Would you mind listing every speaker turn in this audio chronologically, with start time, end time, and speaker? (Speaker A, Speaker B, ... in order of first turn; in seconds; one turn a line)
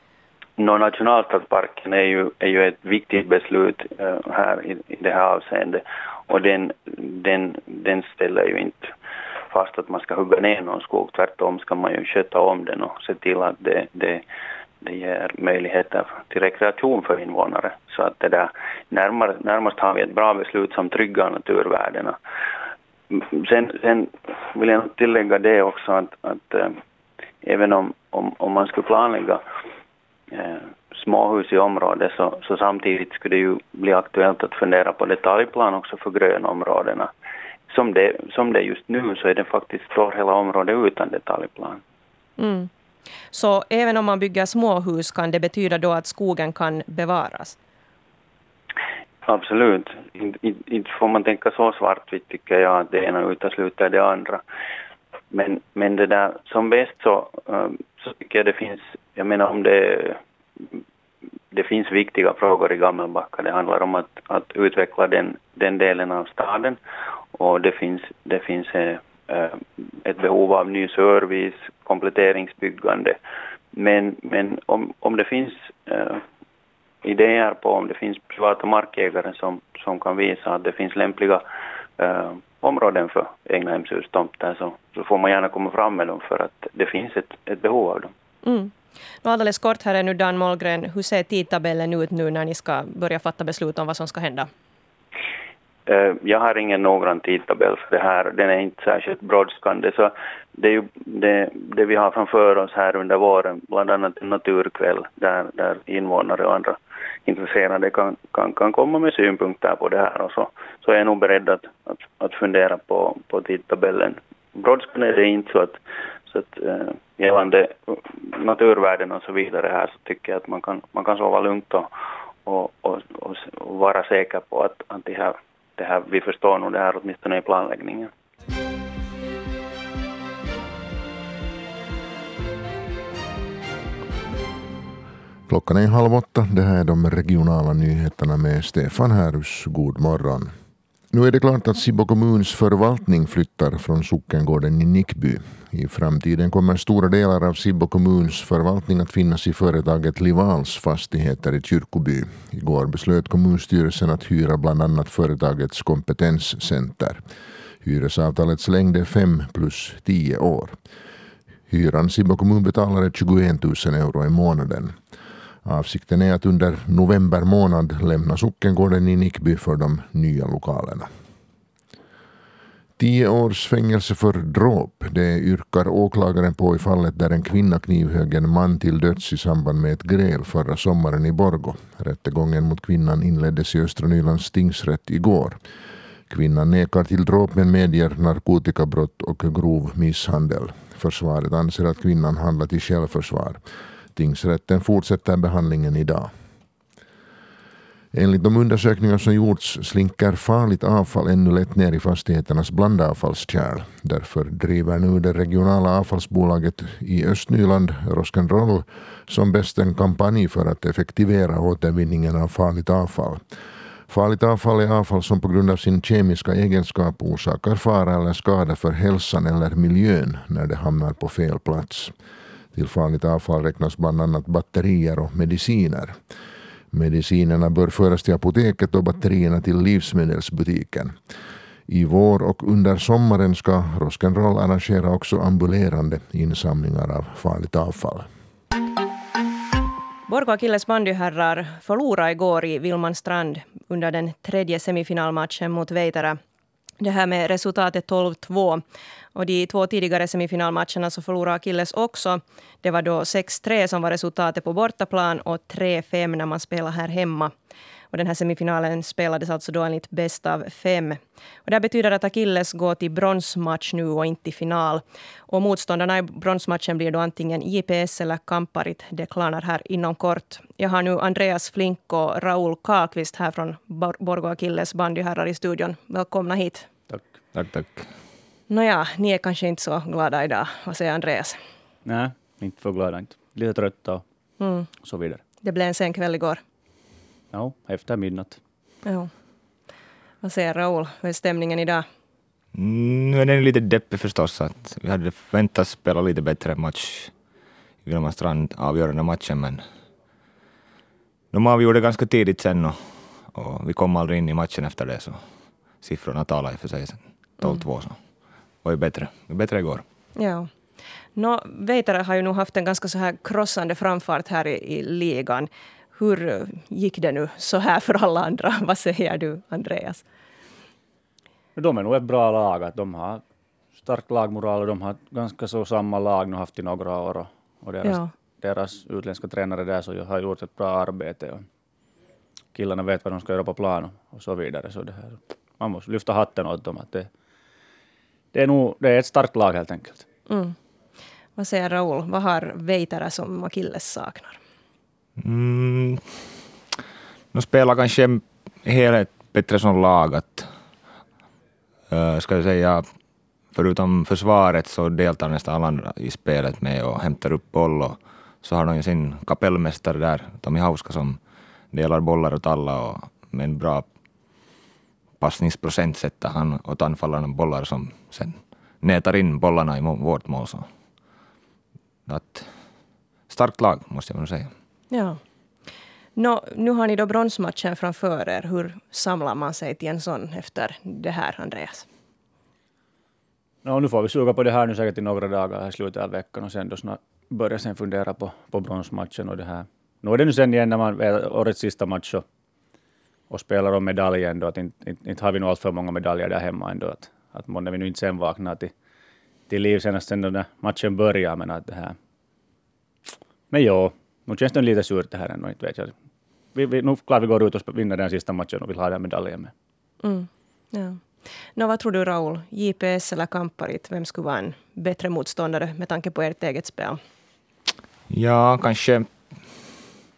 Speaker A: 0.6-8.9
Speaker A: 9.5-14.2
Speaker A: 14.8-22.2
Speaker A: 23.1-26.7
Speaker A: 27.4-29.4
Speaker A: 30.3-37.1
Speaker A: 37.7-41.8
Speaker B: 42.4-42.7
Speaker B: 43.3-47.5
Speaker A: 49.3-54.4
Speaker A: 55.3-60.2
Speaker A: 61.5-66.8
Speaker A: 67.4-73.2
Speaker A: 73.7-76.2
Speaker A: 77.0-81.4
Speaker A: 82.0-88.1
Speaker B: 88.4-88.7
Speaker B: 89.2-94.5
Speaker A: 95.9-121.9
Speaker A: 122.5-128.1
Speaker C: 135.5-140.5
Speaker C: 141.1-157.2
Speaker C: 157.8-160.8
Speaker C: 161.7-164.9
Speaker C: 165.7-171.1
Speaker C: 173.0-185.6
Speaker C: 186.3-193.6
Speaker C: 194.2-196.3
Speaker C: 198.1-213.4
Speaker C: 214.1-222.1
Speaker C: 222.7-226.2
Speaker C: 226.9-231.2
Speaker C: 231.9-238.3
Speaker B: 240.3-246.4
Speaker B: 247.0-248.8
Speaker B: 249.3-257.5
Speaker B: 258.1-276.9
Speaker D: 277.5-278.1
Speaker B: 278.7-281.6
Speaker E: 282.1-284.2
Speaker B: 284.6-284.9
Speaker E: 284.9-285.4
Speaker B: 285.6-286.6
Speaker E: 287.5-288.6
Speaker B: 289.1-289.3
Speaker B: 290.4-292.1
Speaker D: 292.7-297.3
Speaker D: 298.0-299.9
Speaker D: 301.5-305.4
Speaker D: 306.0-308.2
Speaker D: 308.8-310.1
Speaker B: 310.4-310.7
Speaker B: 311.4-320.2
Speaker E: 321.8-323.4
Speaker E: 324.0-331.6
Speaker E: 332.7-337.3
Speaker E: 338.5-340.2
Speaker B: 340.5-340.7
Speaker B: 341.6-344.6
Speaker D: 345.4-346.6
Speaker D: 347.5-350.7
Speaker D: 352.1-353.1
Speaker D: 353.7-364.1
Speaker D: 365.4-370.9
Speaker D: 372.3-372.8
Speaker D: 373.5-374.7
Speaker B: 375.1-375.4
Speaker B: 376.4-382.1
Speaker E: 383.8-392.4
Speaker E: 393.5-398.9
Speaker E: 399.7-402.2
Speaker E: 403.7-406.1
Speaker E: 406.8-409.7
Speaker B: 410.2-417.2
Speaker D: 418.3-419.9